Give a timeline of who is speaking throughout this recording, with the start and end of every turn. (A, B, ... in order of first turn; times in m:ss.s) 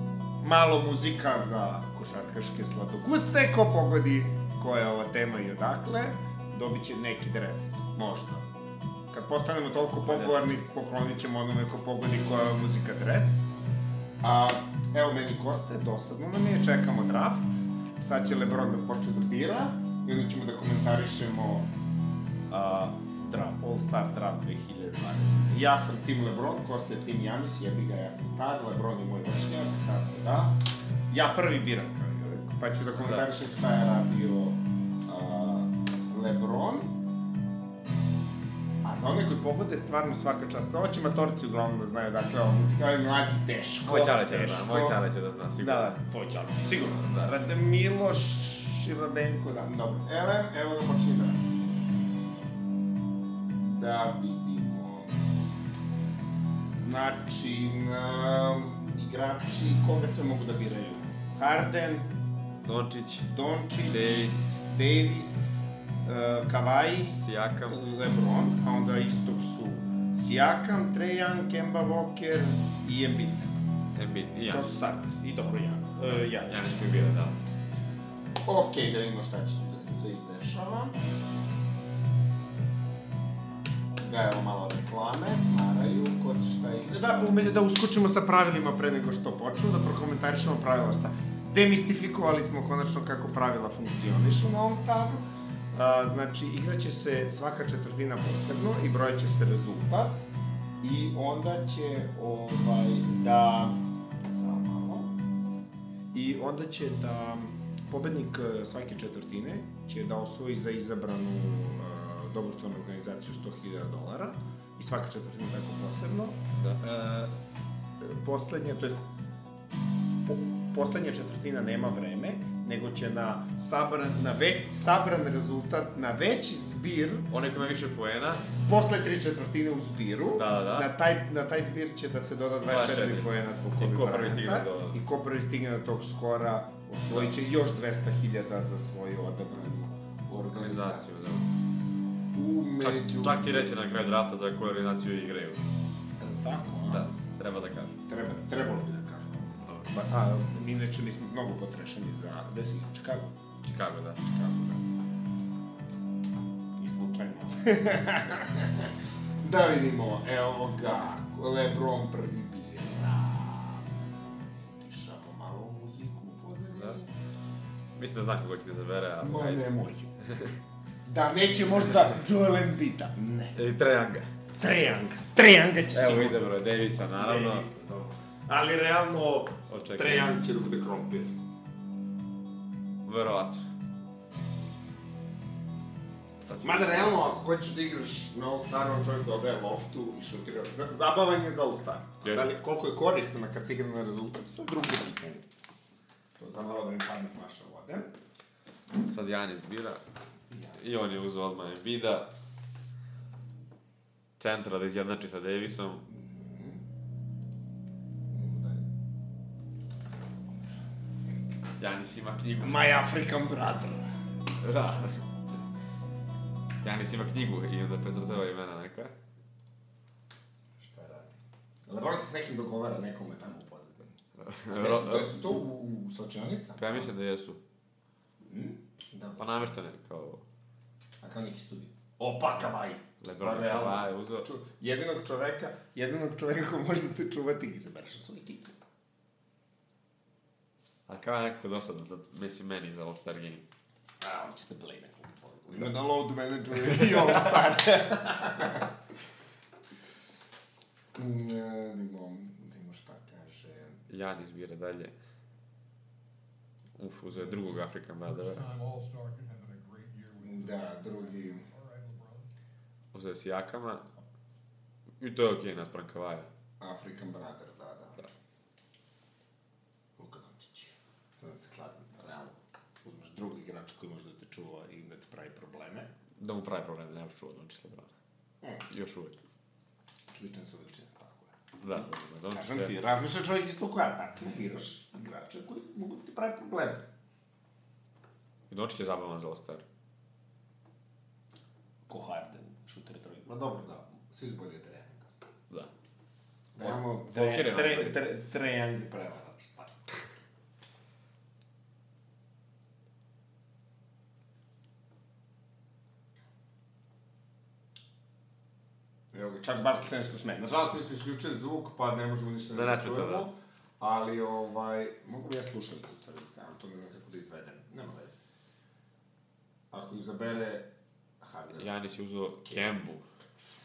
0:00.4-0:08.5 A
0:09.1-0:13.4 A
0:10.0-0:10.4 B
0:14.2-0:21.7 A
0:22.5-0:37.0 A
0:33.0-0:33.3 B
0:38.8-0:45.0 A
0:43.8-0:45.9 B
0:45.6-0:51.5 A
0:46.8-0:47.4 B
0:53.6-0:55.4 A
0:56.7-1:02.1 A
1:02.6-1:04.4 B
1:03.2-1:13.5 A
1:07.1-1:07.8 B
1:13.9-1:14.8 B
1:14.5-1:16.8 A
1:16.4-1:17.4 B
1:18.4-1:21.0 A
1:24.0-1:40.3 A
1:40.8-1:45.1 A
1:46.1-1:57.3 A
1:58.0-1:59.0 A
2:00.2-2:07.8 A
2:07.3-2:08.5 B
2:08.6-2:21.5 A
2:10.3-2:10.9 B
2:12.6-2:15.0 B
2:17.1-2:17.4 B
2:20.5-2:21.5 B
2:22.3-2:23.9 A
2:22.8-2:25.7 B
2:26.2-2:27.1 A
2:26.8-2:28.0 B
2:28.0-2:33.3 A
2:33.6-2:34.2 B
2:34.2-2:34.8 A
2:36.8-2:47.1 A
2:46.7-2:47.0 B
2:47.9-2:50.5 B
2:49.2-2:50.1 A
2:51.0-2:53.6 A
2:53.5-2:54.3 B
2:54.6-3:01.4 A
2:55.9-2:57.7 B
2:59.7-3:00.4 B
3:03.0-3:03.6 B
3:06.4-3:07.3 B
3:06.6-3:15.4 A
3:12.2-3:12.5 B
3:16.4-3:18.1 A
3:19.0-3:20.0 B
3:20.5-3:20.8 A
3:20.7-3:22.3 B
3:24.4-3:26.0 B
3:26.1-3:26.8 A
3:28.3-3:28.9 A
3:31.8-3:32.9 B
3:32.6-3:34.1 A
3:34.6-3:35.2 B
3:36.8-3:39.1 B
3:40.8-3:44.2 A
3:44.4-3:45.5 B
3:44.7-3:47.1 A
3:46.8-3:47.6 B
3:48.4-3:49.8 A
3:49.4-3:50.4 B
3:51.2-3:58.8 A
3:53.2-3:54.5 B
4:01.1-4:03.6 B
4:04.2-4:08.9 A
4:11.1-4:14.0 A
4:14.1-4:15.1 B
4:17.0-4:18.7 B
4:18.3-4:22.5 C
4:20.4-4:21.7 A
4:23.1-4:24.0 B
4:25.2-4:26.5 B
4:26.8-4:28.3 A
4:30.2-4:36.1 A
4:36.4-4:38.1 B
4:38.8-4:39.4 B
4:40.3-4:42.0 A
4:41.8-4:42.9 B
4:42.5-4:47.0 A
4:48.7-4:49.8 B
4:52.1-4:55.3 A
4:56.7-5:00.0 A
4:56.8-4:58.3 B
5:09.3-5:18.4 A
5:12.7-5:13.5 B
5:19.9-5:20.9 A
5:21.4-5:21.9 A
5:21.7-5:23.2 B
5:22.6-5:23.0 A